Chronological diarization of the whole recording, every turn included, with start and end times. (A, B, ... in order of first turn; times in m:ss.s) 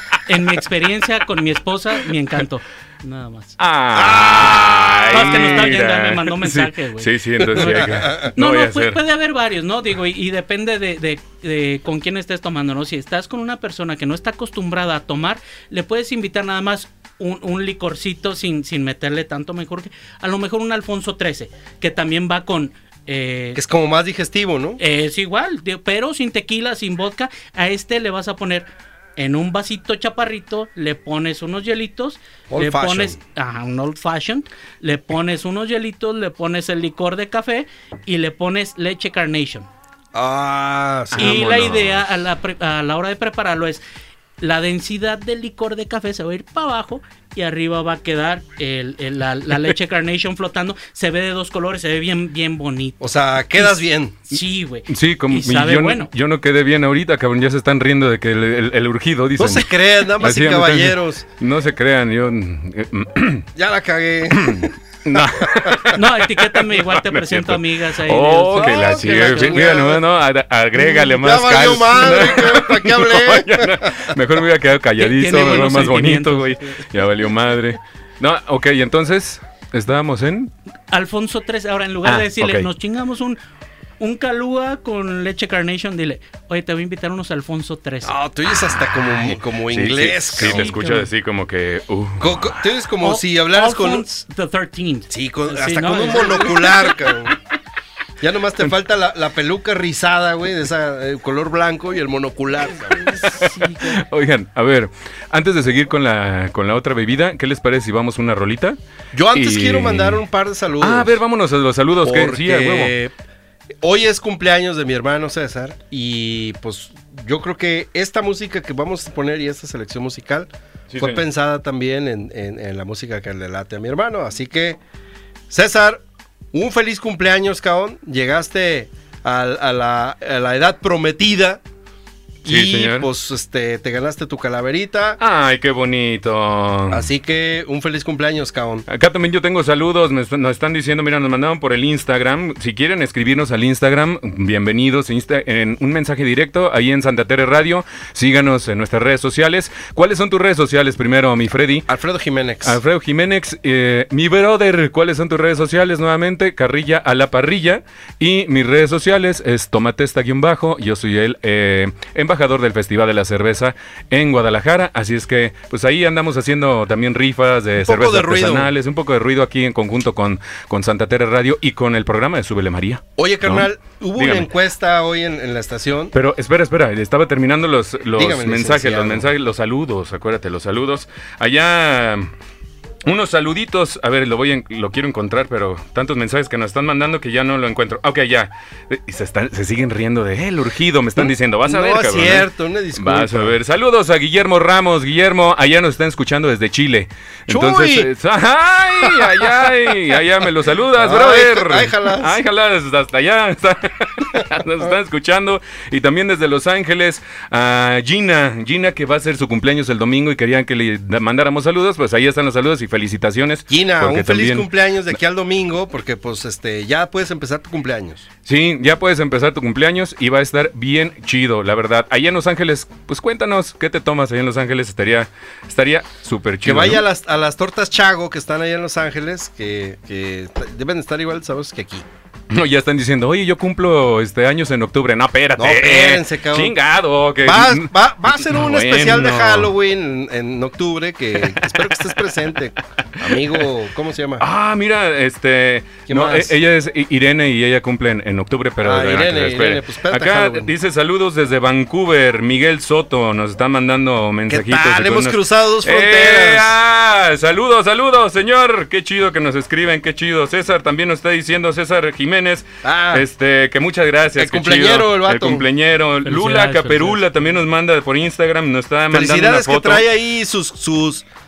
0:00.2-0:03.6 A
0:03.6-0:09.0 B
0:03.9-0:05.6 C
0:04.4-0:23.6 A
0:07.4-0:08.3 C
0:23.5-0:24.8 C
0:24.8-0:39.7 A
0:32.5-0:33.2 C
0:40.1-0:41.4 C
0:41.1-0:42.1 B
0:41.2-0:43.8 A
0:44.4-0:56.1 A
0:53.0-0:54.2 C
0:54.9-1:03.5 B
0:59.4-1:01.2 C
1:03.6-1:05.9 C
1:04.3-1:20.5 B
1:05.9-1:09.6 A
1:08.5-1:10.0 C
1:10.8-1:14.1 C
1:15.0-1:16.9 A
1:20.9-1:23.4 A
1:22.0-1:22.7 B
1:24.0-1:28.2 A
1:28.0-1:30.7 C
1:28.5-1:32.7 B
1:30.3-1:31.1 A
1:32.2-1:34.0 C
1:33.0-1:37.1 A
1:35.1-1:37.4 C
1:38.2-1:43.2 C
1:42.9-1:44.0 A
1:43.2-1:48.8 B
1:49.1-1:51.2 C
1:49.3-1:50.2 B
1:50.8-1:52.9 B
1:52.0-1:53.1 C
1:53.8-2:04.8 C
2:00.9-2:01.2 B
2:05.5-2:11.6 C
2:12.4-2:15.2 C
2:12.4-2:13.1 B
2:15.2-2:17.1 B
2:16.9-2:18.8 C
2:18.9-2:31.9 B
2:31.9-2:32.8 C
2:32.6-2:54.5 B
2:47.8-2:48.7 C
2:53.2-2:56.1 C
2:56.1-3:02.3 B
2:58.2-2:59.3 C
3:03.0-3:34.7 B
3:11.2-3:13.6 C
3:17.5-3:18.1 C
3:19.0-3:19.7 C
3:21.0-3:22.4 C
3:33.7-3:38.2 C
3:38.4-3:47.0 B
3:46.6-3:52.1 C
3:52.5-3:59.7 B
3:55.6-3:56.8 C
3:57.4-4:04.4 C
4:01.5-4:01.9 B
4:03.1-4:03.6 B
4:04.4-4:30.0 B
4:06.1-4:06.5 C
4:08.8-4:10.7 C
4:14.5-4:16.8 C
4:22.8-4:23.2 C
4:24.4-4:25.6 C
4:26.2-4:27.2 A
4:29.1-4:31.2 C